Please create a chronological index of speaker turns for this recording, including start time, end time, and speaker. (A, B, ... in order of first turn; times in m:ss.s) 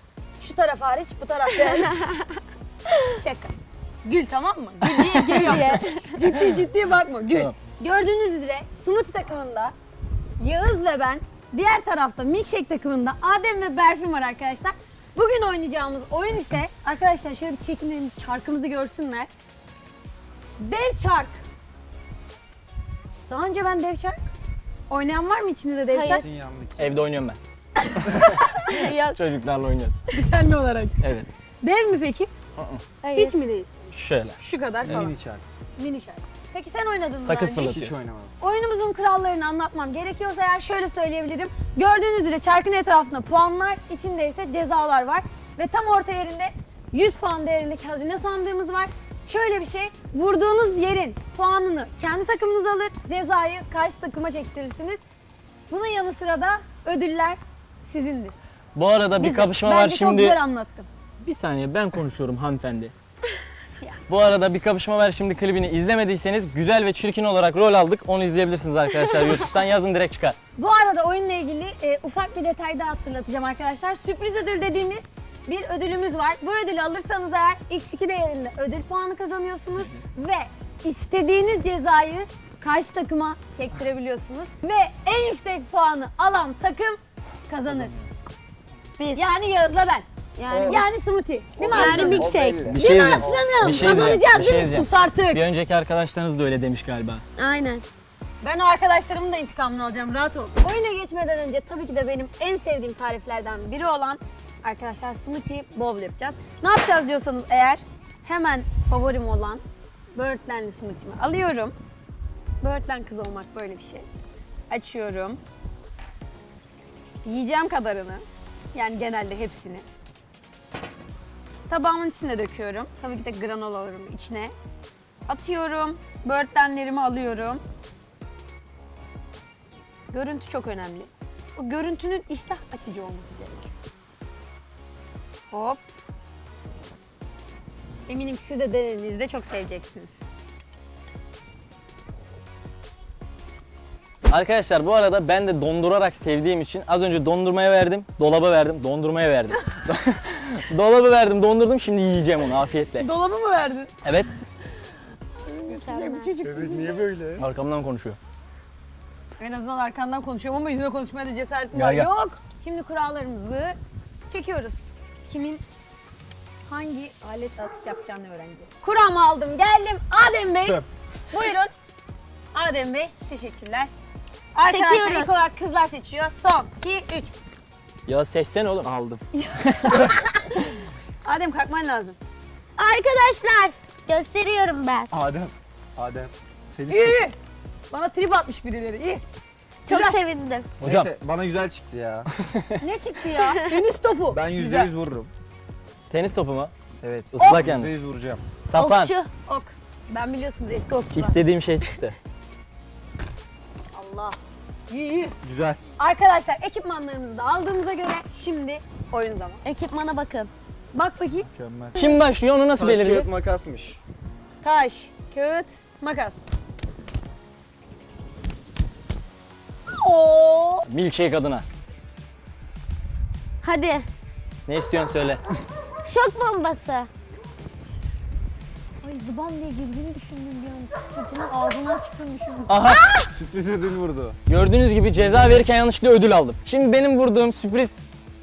0:00.4-0:01.9 A
0:01.6-0:02.3 B
0:03.1-0:09.7 A
0:04.8-0:06.2 B
0:10.4-0:19.3 A
0:20.6-0:21.4 A
0:23.3-0:24.2 A
0:24.9-0:26.2 A
0:25.9-0:26.3 B
0:26.1-0:27.0 C
0:26.8-0:27.4 D
0:28.3-0:28.8 A
0:28.7-0:29.2 B
0:29.1-0:30.0 D
0:30.1-0:30.9 A
0:31.0-0:31.3 D
0:31.6-0:32.3 A
0:32.6-0:32.8 D
0:33.0-0:33.3 B
0:33.1-0:33.8 A
0:33.9-0:35.1 D
0:34.4-0:35.1 A
0:34.8-0:35.4 C
0:35.8-0:37.8 A
0:37.2-0:38.0 D
0:37.6-0:38.3 C
0:38.4-0:55.0 A
0:55.7-0:58.4 A
0:58.7-1:00.4 D
0:59.2-1:00.9 A
1:01.2-1:02.9 D
1:04.1-1:10.4 D
1:10.5-1:27.9 A
1:27.7-1:28.0 C
1:29.1-1:30.0 A
1:30.4-1:30.8 B
1:30.5-1:30.8 C
1:30.6-1:35.4 A
1:31.6-1:34.1 C
1:31.6-1:32.7 B
1:32.7-1:37.2 D
1:37.4-1:37.8 B
1:38.4-1:49.6 A
1:50.1-1:51.7 A
1:52.6-1:54.0 A
1:54.7-1:55.4 A
1:57.2-1:59.8 A
2:01.7-2:04.5 A
2:05.3-2:07.6 A
2:10.1-2:13.7 A
2:15.5-2:15.9 A
2:18.1-2:20.2 A
2:24.3-2:33.1 D
2:33.0-2:33.9 A
2:34.0-2:34.3 D
2:35.4-2:37.1 A
2:35.6-2:36.3 B
2:36.4-2:37.4 C
2:37.4-2:38.2 D
2:39.4-2:43.8 A
2:41.7-2:42.1 D
2:44.3-2:45.6 A
2:46.7-2:51.7 A
2:52.5-2:53.9 A
2:54.5-2:57.3 A
2:54.6-2:55.4 B
2:58.1-2:58.9 D
2:58.8-2:59.2 C
2:59.3-3:00.7 A
2:59.7-3:00.0 D
3:01.2-3:02.2 A
3:02.8-3:05.1 B
3:05.1-3:07.2 C
3:06.9-3:07.3 A
3:07.9-3:09.2 A
3:09.8-3:10.7 B
3:09.9-3:10.2 A
3:10.8-3:12.3 C
3:10.8-3:11.1 D
3:12.8-3:14.9 A
3:14.3-3:15.3 C
3:16.1-3:16.7 D
3:17.0-3:18.4 C
3:17.3-3:17.9 D
3:17.4-3:17.6 A
3:18.6-3:19.1 D
3:18.7-3:19.3 B
3:19.4-3:21.4 A
3:21.1-3:22.2 D
3:23.9-3:24.4 A
3:24.9-3:25.3 A
3:25.4-3:25.8 C
3:26.0-3:29.6 A
3:29.6-3:30.5 B
3:30.9-3:31.5 A
3:31.5-3:32.0 C
3:31.9-3:33.3 D
3:32.7-3:34.0 C
3:34.6-3:36.4 A
3:39.9-3:40.8 A
3:40.9-3:41.6 D
3:43.6-3:44.1 B
3:44.6-3:45.4 D
3:46.0-3:47.1 B
3:49.0-3:52.7 A
3:52.7-3:53.1 D
3:52.8-3:53.3 B
3:53.3-3:54.4 C
3:54.5-3:58.0 D
3:55.2-3:55.6 C